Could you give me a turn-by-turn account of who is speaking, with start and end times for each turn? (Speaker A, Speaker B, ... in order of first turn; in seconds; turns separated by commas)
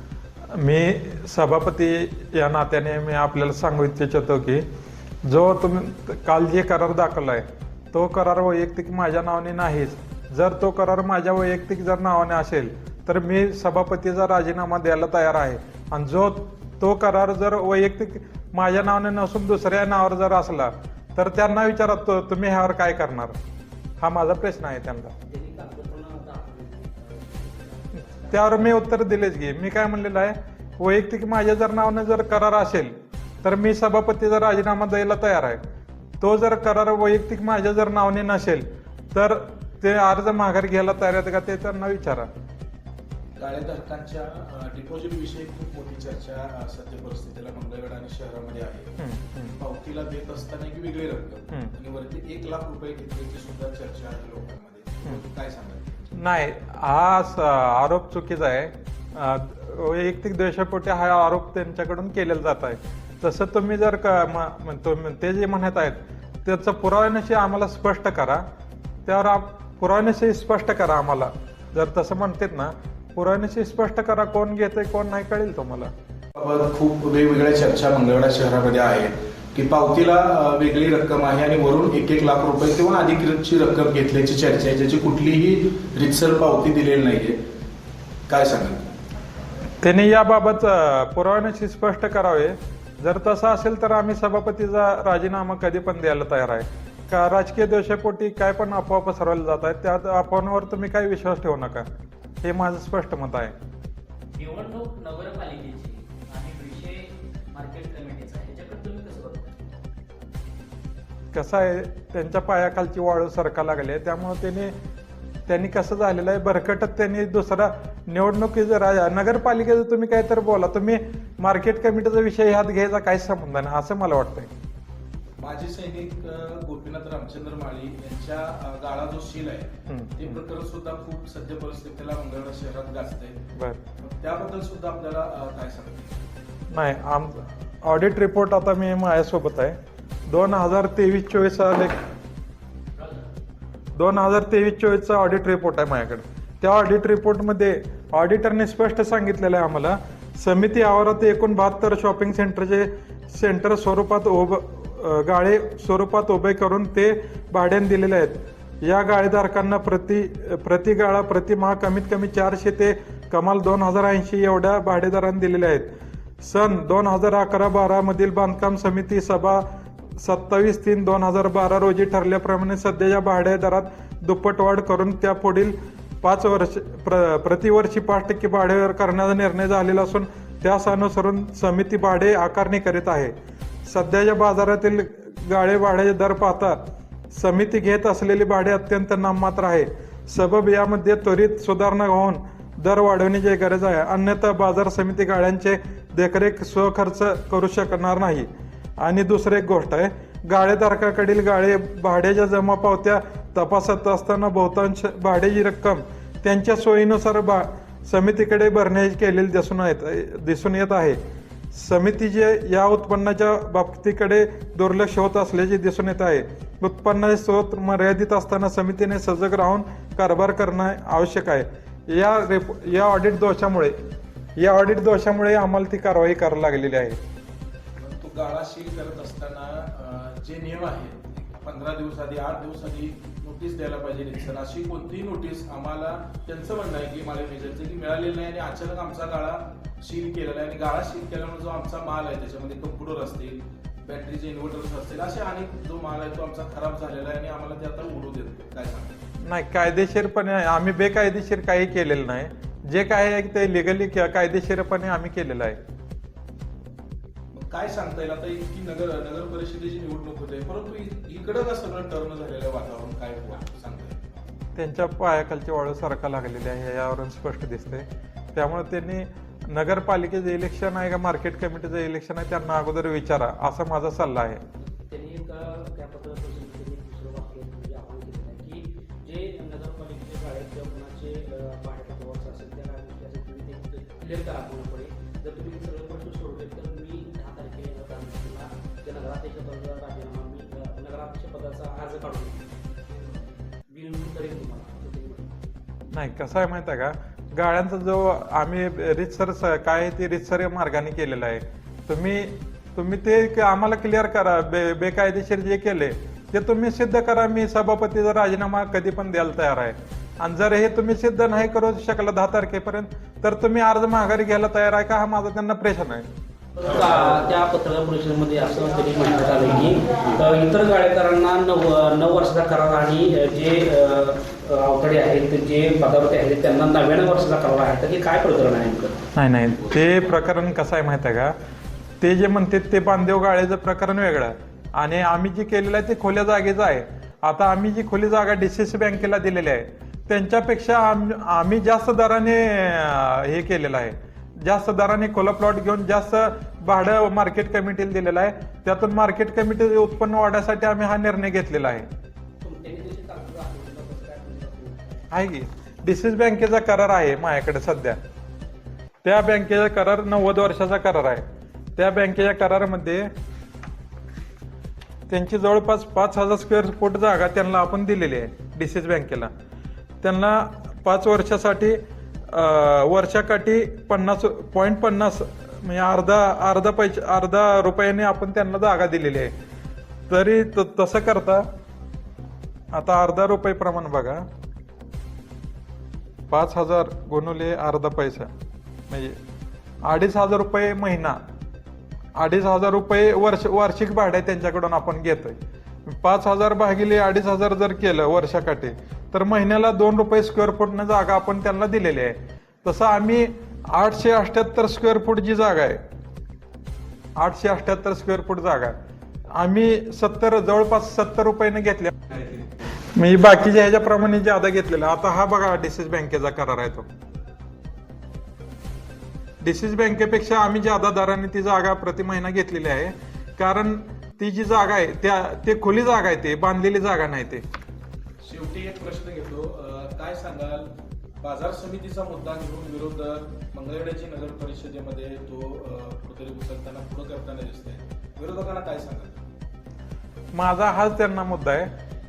Speaker A: 0.6-4.6, Speaker A: 5.2-23.3, Speaker A: 24.0-25.1, Speaker B: 25.3-28.7, Speaker A: 28.3-35.6, Speaker A: 36.2-42.3, Speaker C: 43.4-48.9, Speaker A: 49.0-49.5, Speaker C: 49.5-55.9, Speaker A: 56.1-68.4, Speaker A: 69.0-75.9, Speaker C: 76.3-87.3, Speaker C: 88.3-88.9, Speaker A: 89.8-101.8, Speaker A: 102.4-103.5, Speaker B: 104.4-109.5, Speaker A: 111.3-114.7, Speaker A: 115.5-124.5, Speaker C: 125.4-133.4, Speaker A: 129.9-130.4, Speaker C: 134.0-136.1, Speaker A: 136.7-139.8, Speaker A: 140.3-142.0, Speaker A: 143.9-169.6, Speaker A: 170.2-183.3, Speaker A: 183.8-186.8, Speaker A: 187.3-198.5, Speaker A: 199.0-211.2, Speaker A: 211.7-223.9, Speaker A: 224.6-227.2, Speaker C: 228.0-249.2, Speaker A: 249.4-255.8, Speaker C: 257.5-264.4, Speaker A: 264.8-274.6, Speaker B: 275.1-293.4, Speaker B: 293.9-295.5, Speaker A: 296.1-316.2, Speaker B: 316.8-329.2, Speaker A: 329.3-331.5, Speaker A: 332.2-352.0, Speaker B: 352.6-355.3, Speaker A: 355.3-358.2, Speaker A: 359.2-361.4, Speaker A: 361.9-363.3, Speaker A: 365.3-369.5, Speaker A: 370.2-379.5, Speaker A: 380.3-381.6, Speaker A: 382.9-384.5, Speaker A: 386.5-388.5, Speaker A: 389.1-389.4, Speaker A: 390.0-391.4, Speaker A: 392.4-406.0, Speaker A: 407.4-408.9, Speaker A: 409.5-417.1, Speaker A: 419.6-427.6, Speaker C: 428.4-430.9, Speaker C: 431.4-439.4, Speaker A: 440.5-441.9